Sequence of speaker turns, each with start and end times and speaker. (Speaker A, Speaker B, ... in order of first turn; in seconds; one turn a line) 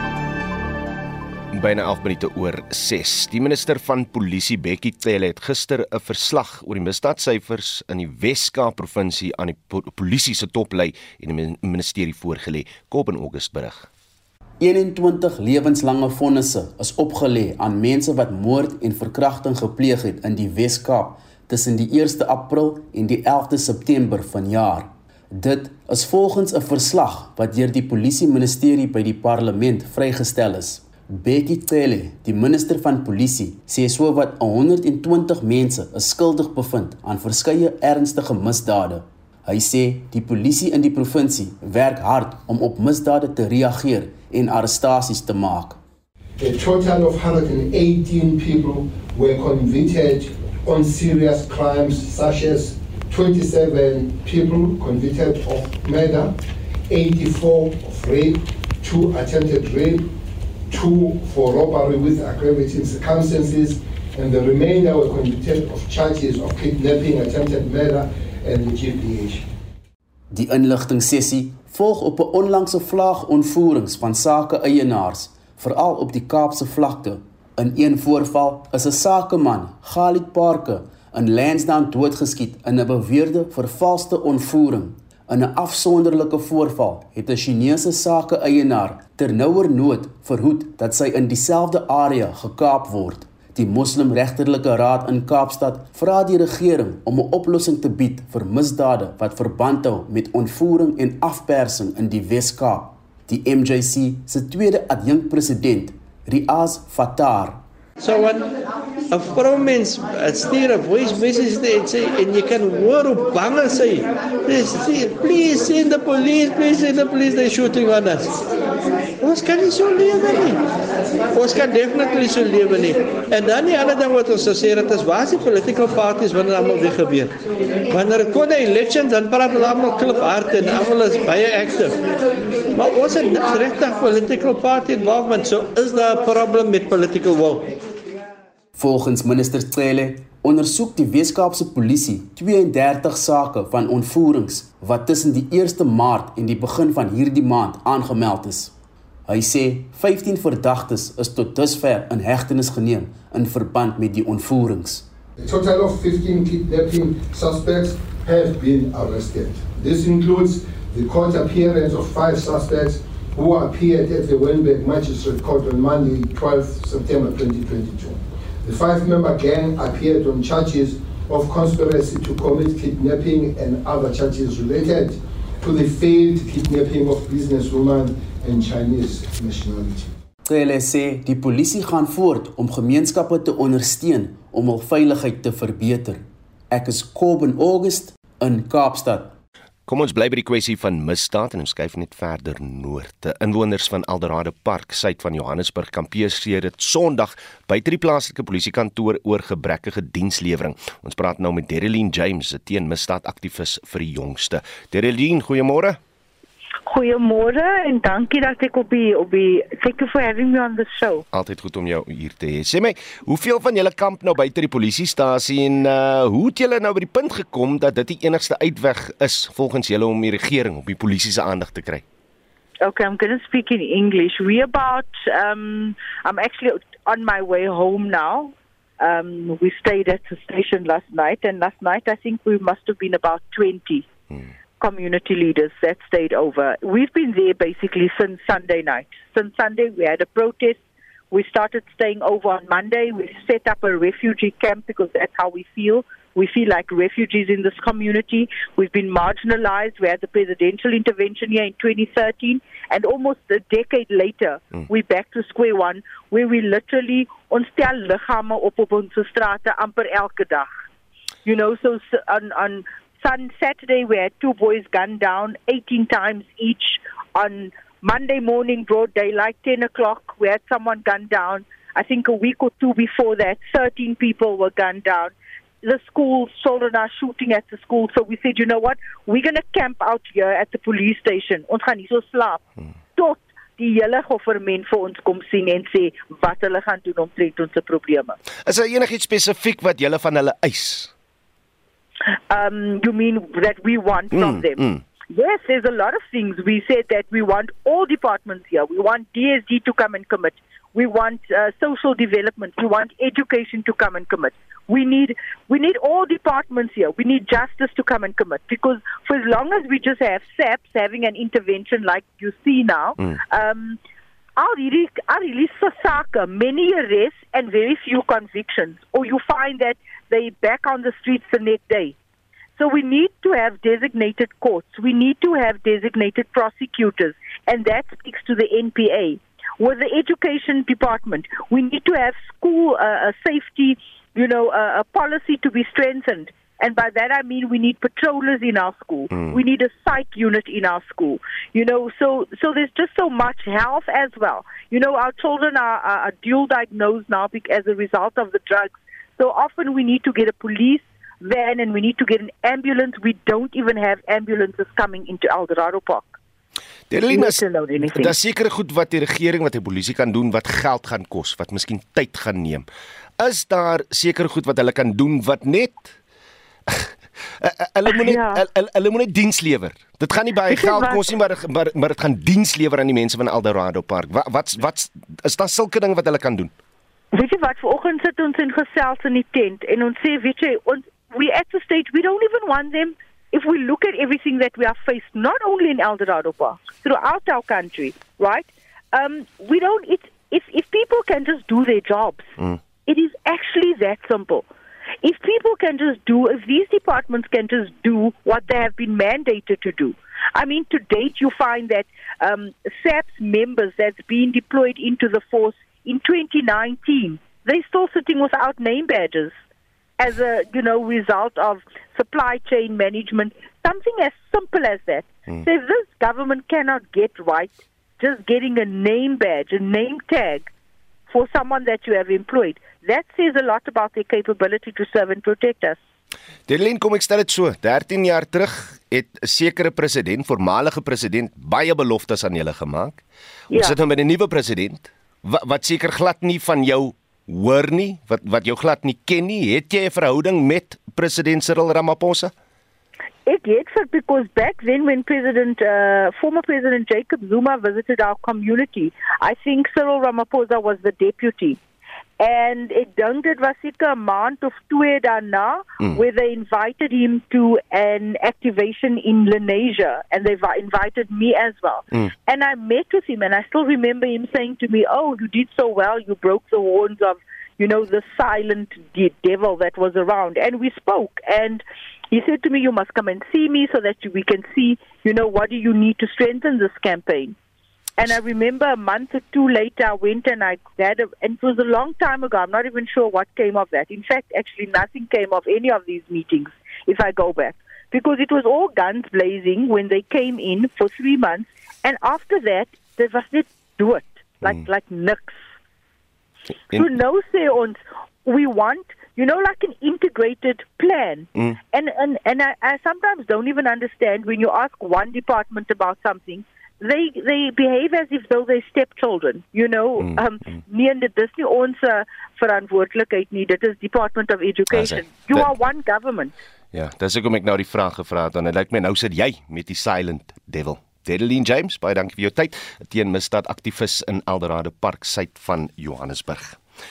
Speaker A: 1.5-13.9
Speaker B: 14.6-45.8
Speaker C: 46.4-56.3
Speaker C: 56.9-60.1
Speaker C: 60.7-69.5
Speaker B: 70.3-107.6
Speaker D: 108.0-108.5
Speaker D: 109.1-118.4
Speaker D: 119.2-120.6
Speaker D: 121.3-127.3
Speaker D: 127.9-132.0
Speaker D: 132.7-137.7
Speaker B: 138.8-148.7
Speaker B: 149.3-155.1
Speaker C: 155.4-180.1
Speaker B: 180.4-189.3
Speaker A: 189.9-206.0
Speaker E: 206.9-211.2
Speaker A: 211.3-222.0
Speaker E: 222.8-234.1
Speaker E: 234.8-240.8
Speaker E: 241.3-260.7
Speaker E: 261.4-282.6
Speaker E: 283.1-288.4
Speaker A: 288.6-291.1
Speaker E: 292.5-314.0
Speaker A: 294.3-295.0
Speaker E: 314.6-322.1
Speaker E: 322.8-356.4
Speaker A: 339.3-339.6
Speaker A: 357.1-362.8
Speaker E: 357.3-358.3
Speaker A: 363.4-366.1
Speaker A: 366.9-376.7
Speaker E: 368.1-368.6
Speaker E: 370.7-371.2
Speaker E: 377.3-392.5
Speaker E: 393.1-394.6
Speaker E: 395.2-409.5
Speaker E: 410.2-420.7
Speaker E: 421.3-426.0
Speaker A: 426.7-442.5
Speaker E: 443.4-451.8
Speaker E: 452.4-477.6
Speaker E: 478.2-495.6
Speaker E: 496.9-516.5
Speaker A: 514.9-515.7
Speaker A: 516.9-526.8